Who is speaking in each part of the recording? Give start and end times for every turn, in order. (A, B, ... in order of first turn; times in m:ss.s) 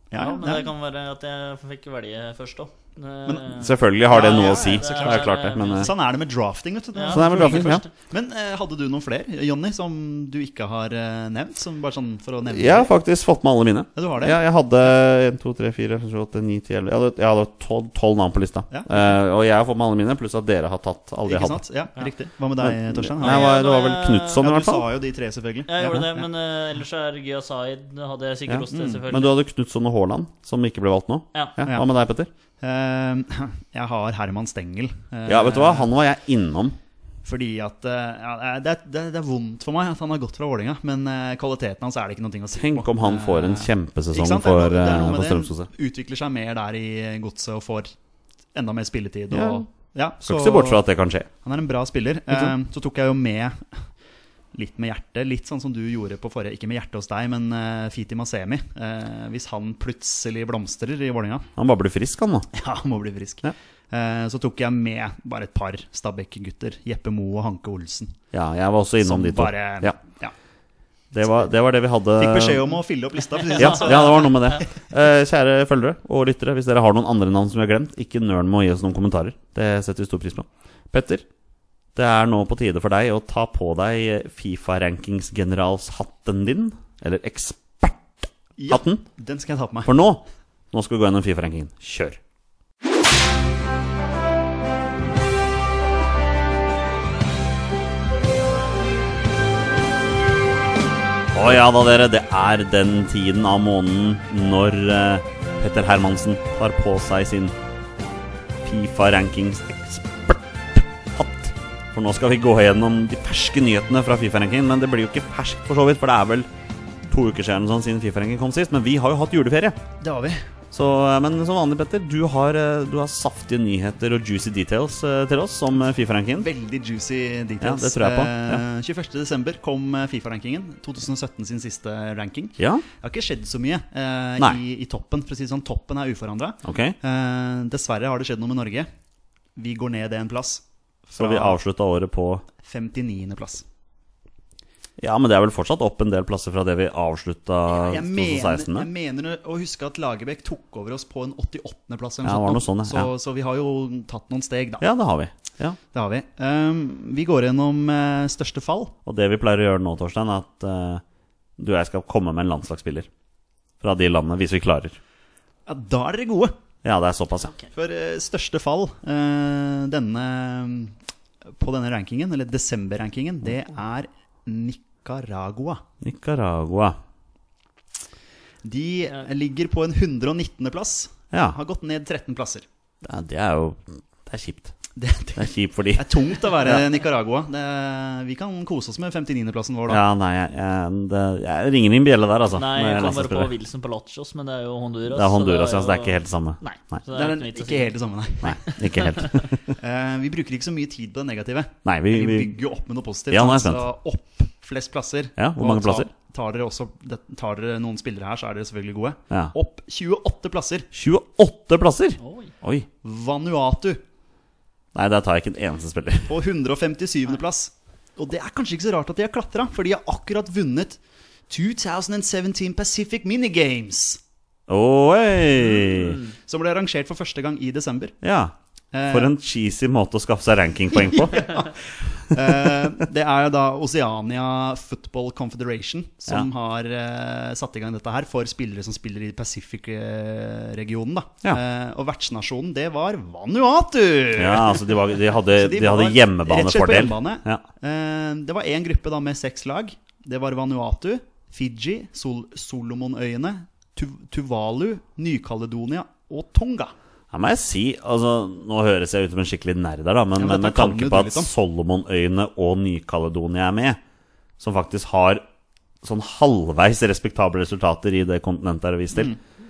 0:00.1-0:00.7 A
0:00.2-0:05.9 B
0:03.2-0:12.9 A
0:03.5-0:05.9 C
0:06.9-0:07.9 B
0:07.1-0:07.8 C
0:12.5-0:21.6 C
0:13.9-0:14.4 A
0:18.7-0:19.0 A
0:21.2-0:23.5 A
0:22.6-0:24.8 C
0:23.2-0:24.4 B
0:24.4-0:26.2 A
0:25.7-0:29.3 B
0:28.5-0:32.3 C
0:28.7-0:29.0 A
0:31.3-0:31.6 B
0:32.6-0:35.9 A
0:35.2-0:36.8 C
0:37.2-0:47.9 A
0:42.6-0:45.7 C
0:48.5-0:50.8 A
0:49.3-0:49.6 C
0:50.2-0:51.3 C
0:51.4-0:53.8 A
0:54.5-1:01.5 A
1:01.6-1:02.5 C
1:02.5-1:08.2 A
1:08.3-1:10.0 C
1:09.0-1:10.3 A
1:11.1-1:12.7 C
1:12.2-1:14.6 A
1:13.5-1:14.3 B
1:13.6-1:21.2 C
1:21.9-1:29.0 C
1:28.6-1:29.9 A
1:29.8-1:32.2 C
1:41.3-1:47.5 C
1:48.6-1:56.5 C
1:57.1-1:59.8 C
2:00.0-2:00.4 A
2:00.7-2:06.5 C
2:06.4-2:18.9 A
2:07.6-2:08.6 C
2:12.6-2:12.8 C
2:16.6-2:17.0 C
2:19.6-2:21.6 A
2:21.2-2:22.4 C
2:22.6-2:23.6 A
2:25.0-2:28.9 C
2:27.7-2:34.9 A
2:32.2-2:33.1 C
2:34.8-2:35.8 C
2:35.9-2:38.9 A
2:39.0-2:41.0 C
2:41.6-2:43.1 C
2:43.8-2:45.0 C
2:45.7-2:46.5 A
2:46.8-2:47.6 C
2:47.7-2:51.0 A
2:51.6-2:55.8 A
2:56.0-2:57.0 C
2:58.6-3:02.6 A
3:01.3-3:01.6 C
3:03.0-3:04.7 C
3:05.0-3:10.0 A
3:05.4-3:06.8 C
3:09.9-3:13.5 C
3:12.5-3:17.9 B
3:15.1-3:17.0 C
3:17.1-3:18.7 A
3:18.4-3:19.6 C
3:18.6-3:19.3 B
3:19.8-3:30.9 A
3:21.8-3:22.5 C
3:23.3-3:23.8 C
3:25.4-3:26.1 C
3:30.9-3:32.9 C
3:32.2-3:32.5 B
3:33.0-3:34.0 A
3:34.9-3:36.3 C
3:36.3-3:44.2 A
3:44.7-3:46.2 C
3:46.4-3:48.2 A
3:48.2-3:48.5 C
3:48.9-3:49.3 A
3:49.1-3:51.6 C
3:50.9-4:16.9 A
4:04.4-4:07.6 C
4:17.3-4:24.0 C
4:20.4-4:21.5 A
4:24.6-4:25.4 C
4:26.0-4:29.3 C